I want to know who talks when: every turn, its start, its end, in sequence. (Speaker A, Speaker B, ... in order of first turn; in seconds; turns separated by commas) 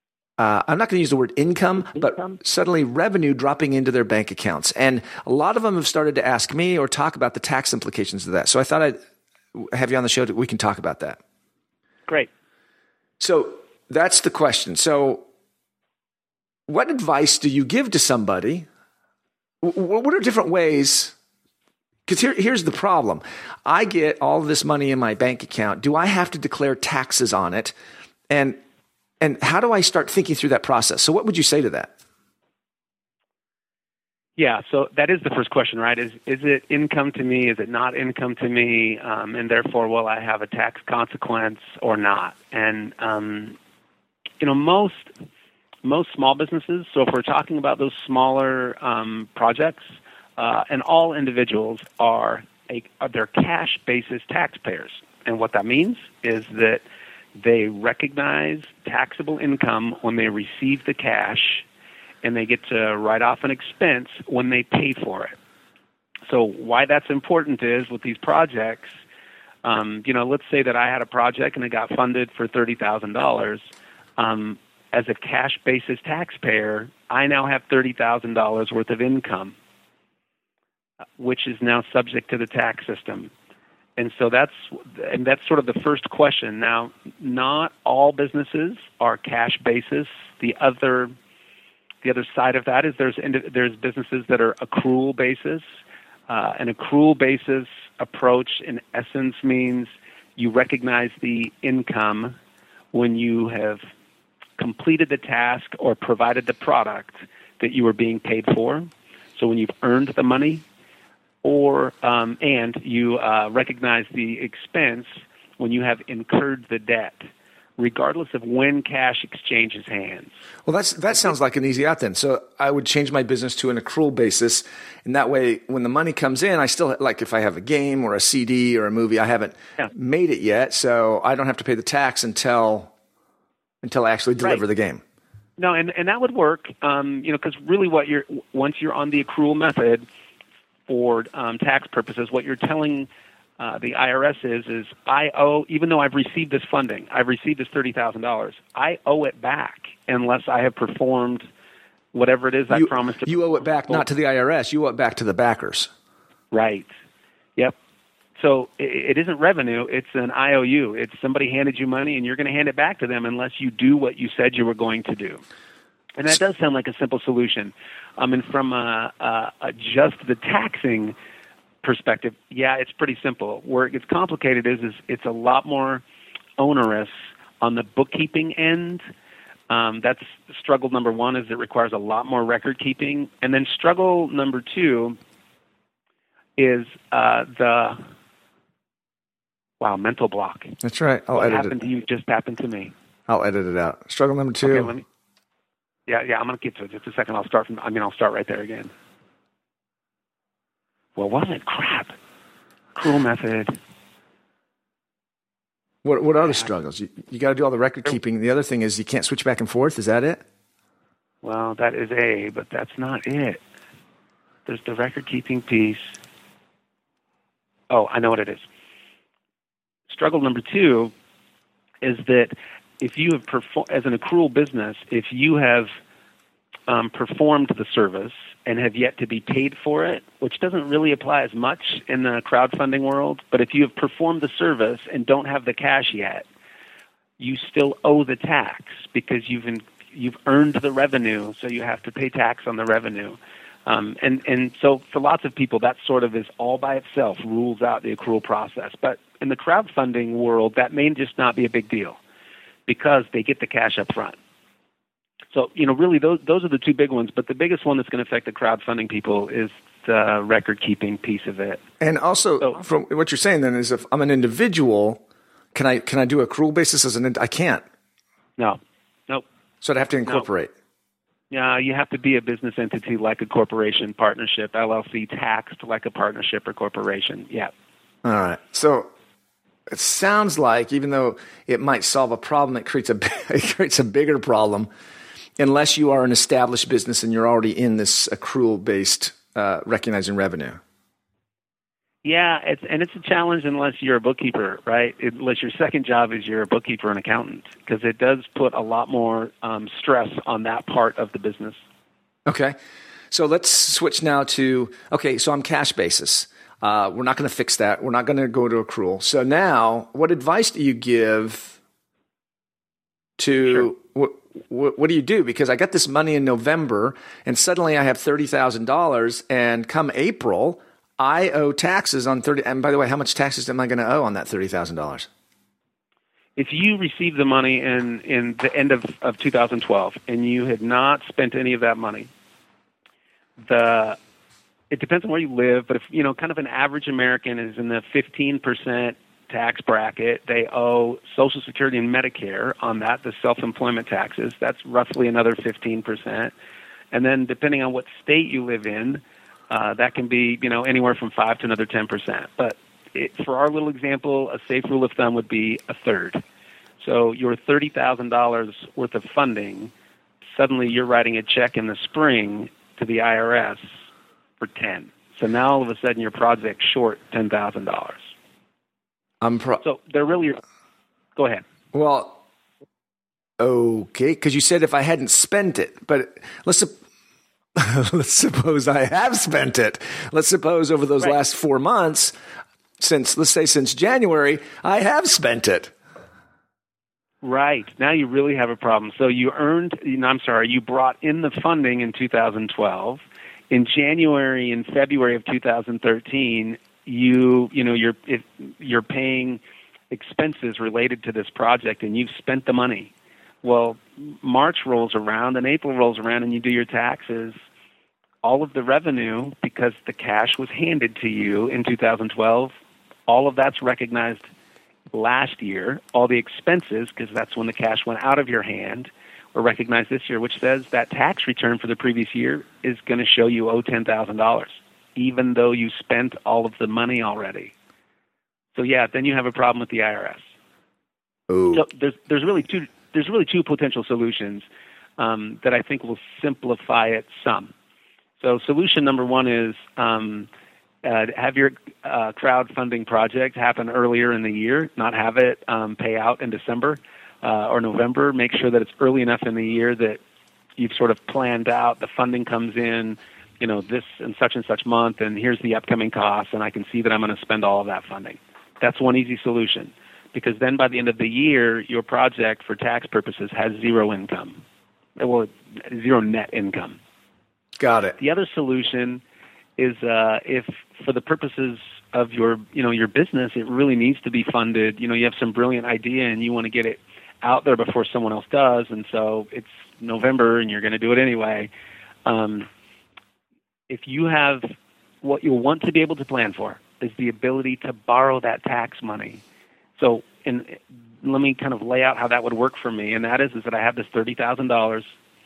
Speaker A: 0.4-9.0, Speaker A: 9.6-11.2, Speaker A: 13.2-15.2, Speaker A: 16.7-18.7, Speaker A: 19.6-21.1, Speaker A: 22.1-27.7, Speaker A: 28.3-28.6, Speaker A: 29.2-31.9, Speaker B: 34.4-43.6, Speaker B: 44.4-45.1, Speaker B: 45.8-49.9, Speaker B: 50.4-56.8, Speaker B: 57.4-61.6, Speaker B: 62.2-65.4, Speaker B: 66.3-68.9, Speaker B: 69.6-79.6, Speaker B: 81.2-83.3, Speaker B: 84.0-91.1, Speaker B: 92.0-95.6, Speaker B: 96.3-102.4, Speaker B: 102.9-103.8, Speaker B: 104.6-110.6, Speaker B: 111.4-117.2, Speaker B: 117.8-120.3, Speaker A: 120.7-132.9, Speaker A: 133.8-135.0, Speaker B: 135.6-140.1, Speaker B: 140.9-143.1, Speaker B: 143.6-151.5, Speaker B: 152.1-154.1, Speaker A: 152.7-155.9, Speaker B: 156.5-156.9, Speaker B: 158.4-165.4, Speaker B: 166.2-171.2, Speaker B: 171.8-176.0, Speaker B: 176.6-179.0, Speaker B: 179.7-185.2, Speaker B: 186.6-188.0, Speaker B: 189.8-190.8, Speaker A: 190.8-191.8, Speaker B: 191.3-192.9, Speaker A: 193.3-194.9, Speaker B: 194.6-195.0, Speaker B: 196.1-198.9, Speaker B: 201.2-202.1, Speaker B: 202.9-203.7, Speaker A: 206.0-210.4, Speaker B: 211.4-213.6, Speaker B: 214.7-216.2, Speaker B: 217.9-218.6, Speaker B: 220.1-221.1, Speaker B: 222.0-225.9, Speaker B: 226.9-236.5, Speaker B: 237.4-252.2, Speaker B: 252.9-254.4, Speaker B: 255.5-261.8, Speaker A: 262.0-265.2, Speaker A: 265.7-267.8, Speaker B: 268.6-269.4, Speaker A: 269.8-270.7, Speaker B: 271.5-277.7, Speaker A: 278.2-279.1, Speaker A: 279.9-284.9, Speaker A: 285.6-290.8, Speaker B: 292.2-301.8, Speaker A: 302.5-302.8, Speaker A: 303.3-311.8, Speaker A: 313.4-325.3, Speaker B: 326.6-332.3, Speaker B: 333.6-334.2, Speaker B: 334.9-346.5, Speaker B: 347.1-356.4, Speaker B: 357.0-359.9, Speaker B: 360.6-363.8, Speaker B: 364.6-368.3, Speaker A: 369.4-369.8, Speaker B: 369.8-370.6, Speaker B: 371.4-371.6, Speaker A: 371.9-372.4, Speaker A: 373.6-376.9, Speaker A: 377.8-382.3, Speaker A: 383.0-385.9, Speaker B: 387.4-403.1, Speaker B: 403.6-407.6, Speaker B: 408.4-412.7, Speaker B: 413.3-414.5, Speaker B: 415.1-427.7, Speaker B: 428.8-430.4, Speaker A: 431.5-431.8, Speaker B: 431.7-434.6, Speaker B: 435.2-437.7, Speaker B: 438.4-440.5, Speaker B: 441.0-450.2, Speaker B: 450.8-464.6, Speaker B: 465.2-467.0, Speaker A: 467.8-468.2, Speaker B: 468.2-469.2, Speaker B: 469.8-481.7, Speaker B: 482.2-482.7, Speaker B: 483.9-484.6, Speaker B: 485.2-489.4, Speaker B: 490.0-495.1